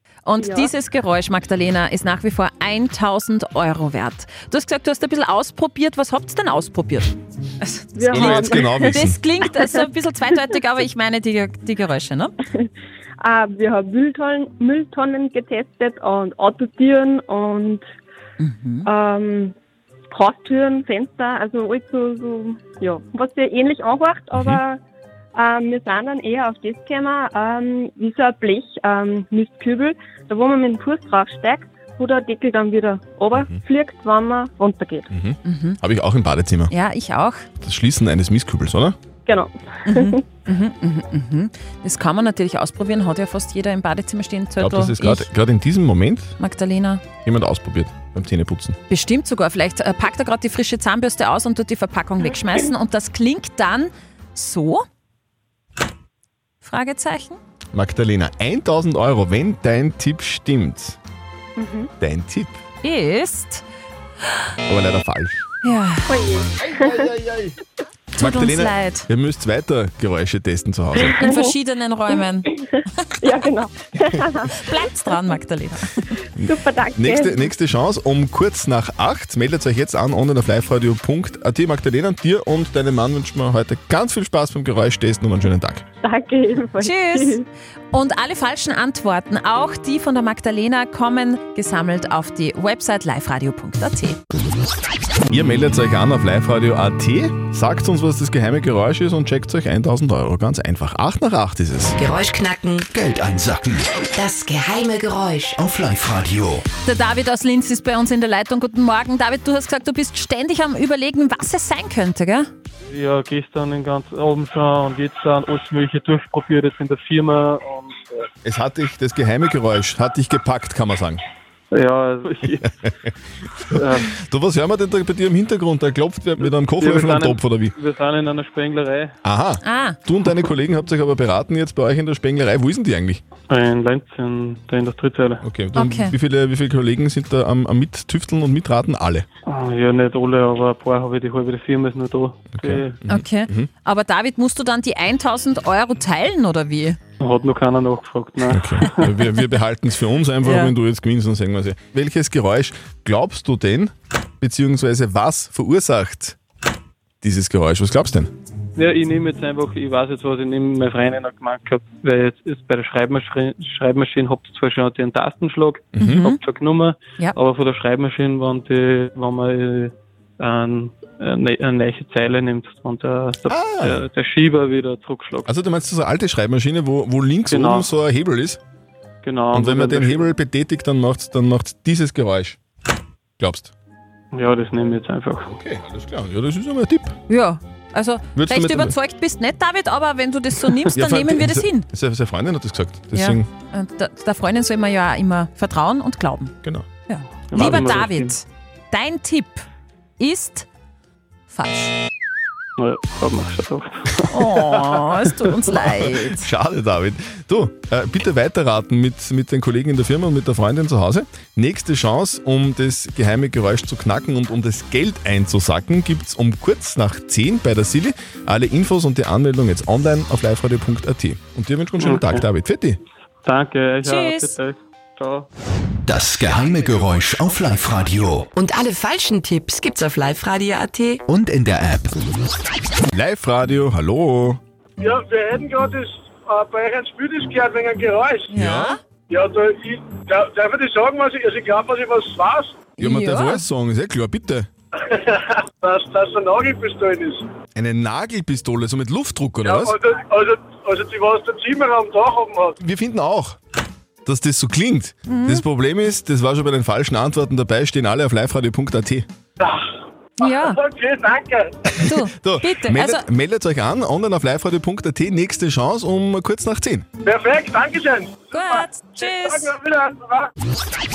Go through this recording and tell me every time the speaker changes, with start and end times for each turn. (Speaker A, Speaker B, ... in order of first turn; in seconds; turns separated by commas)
Speaker A: 0.3-12.4, Speaker B: 0.4-0.7, Speaker B: 8.0-9.7, Speaker C: 8.1-9.2, Speaker B: 13.2-17.8, Speaker A: 18.4-18.9, Speaker B: 18.9-19.5, Speaker B: 20.1-24.8, Speaker C: 24.4-24.6, Speaker B: 25.4-35.1, Speaker C: 33.3-33.6, Speaker C: 35.1-36.7, Speaker A: 35.5-35.8, Speaker A: 36.7-37.5, Speaker C: 37.6-39.0, Speaker B: 39.3-40.2, Speaker A: 39.9-45.3, Speaker C: 44.6-46.3, Speaker A: 46.4-47.0, Speaker C: 47.2-48.8, Speaker A: 48.9-54.8, Speaker A: 56.6-57.4, Speaker C: 57.7-61.0, Speaker B: 61.6-61.9, Speaker C: 62.0-62.6, Speaker A: 62.8-63.6, Speaker C: 64.7-65.4, Speaker A: 65.6-66.1, Speaker B: 66.1-67.1, Speaker C: 66.6-67.6, Speaker A: 68.2-69.1, Speaker C: 68.2-71.2, Speaker B: 71.1-71.5, Speaker A: 71.2-72.6, Speaker B: 72.5-74.8, Speaker A: 74.5-76.0, Speaker B: 76.2-77.5, Speaker C: 76.4-85.8, Speaker B: 86.0-87.4, Speaker A: 86.8-87.4, Speaker A: 87.9-94.2, Speaker C: 95.3-102.0, Speaker D: 102.0-102.9, Speaker E: 102.9-104.0, Speaker D: 104.2-105.6, Speaker E: 105.5-106.7, Speaker A: 106.8-112.5, Speaker F: 112.9-118.3, Speaker C: 118.4-121.2, Speaker F: 121.7-122.7, Speaker C: 122.8-123.1, Speaker F: 123.7-124.1, Speaker C: 124.0-127.7, Speaker F: 126.4-129.1, Speaker C: 129.2-133.2, Speaker A: 129.6-130.0, Speaker F: 133.5-135.4, Speaker C: 135.4-139.3, Speaker A: 135.8-136.2, Speaker F: 139.5-143.0, Speaker C: 142.5-143.7, Speaker A: 143.1-147.0, Speaker F: 147.2-149.1, Speaker C: 148.5-156.4, Speaker A: 150.4-150.7, Speaker C: 157.2-158.3, Speaker F: 158.8-175.5, Speaker C: 165.9-166.2, Speaker A: 166.0-166.4, Speaker C: 173.4-174.1, Speaker C: 175.5-178.6, Speaker F: 177.5-177.9, Speaker F: 179.2-180.2, Speaker C: 179.5-182.6, Speaker C: 183.4-183.7, Speaker F: 184.3-185.5, Speaker C: 185.4-187.2, Speaker A: 187.3-191.9, Speaker C: 188.3-188.9, Speaker C: 190.9-193.5, Speaker A: 193.1-196.6, Speaker A: 197.1-199.7, Speaker F: 197.5-198.3, Speaker A: 200.2-200.7, Speaker A: 201.5-201.9, Speaker F: 202.8-204.9, Speaker A: 204.3-206.5, Speaker C: 206.4-223.0, Speaker F: 222.0-222.4, Speaker F: 223.4-225.5, Speaker A: 224.0-224.5, Speaker E: 226.1-228.5, Speaker G: 228.6-231.2, Speaker E: 231.3-232.2, Speaker C: 233.1-234.6, Speaker H: 235.0-238.5, Speaker A: 238.5-239.0, Speaker C: 238.6-239.0, Speaker H: 239.3-242.8, Speaker A: 243.0-243.6, Speaker C: 243.0-244.7, Speaker H: 245.8-247.4, Speaker C: 247.8-249.9, Speaker H: 249.7-252.7, Speaker C: 252.8-253.6, Speaker C: 254.2-259.3, Speaker A: 255.3-255.6, Speaker A: 260.4-260.8, Speaker H: 260.4-261.7, Speaker A: 262.0-263.2, Speaker C: 262.0-267.1, Speaker H: 267.3-270.5, Speaker A: 268.5-269.7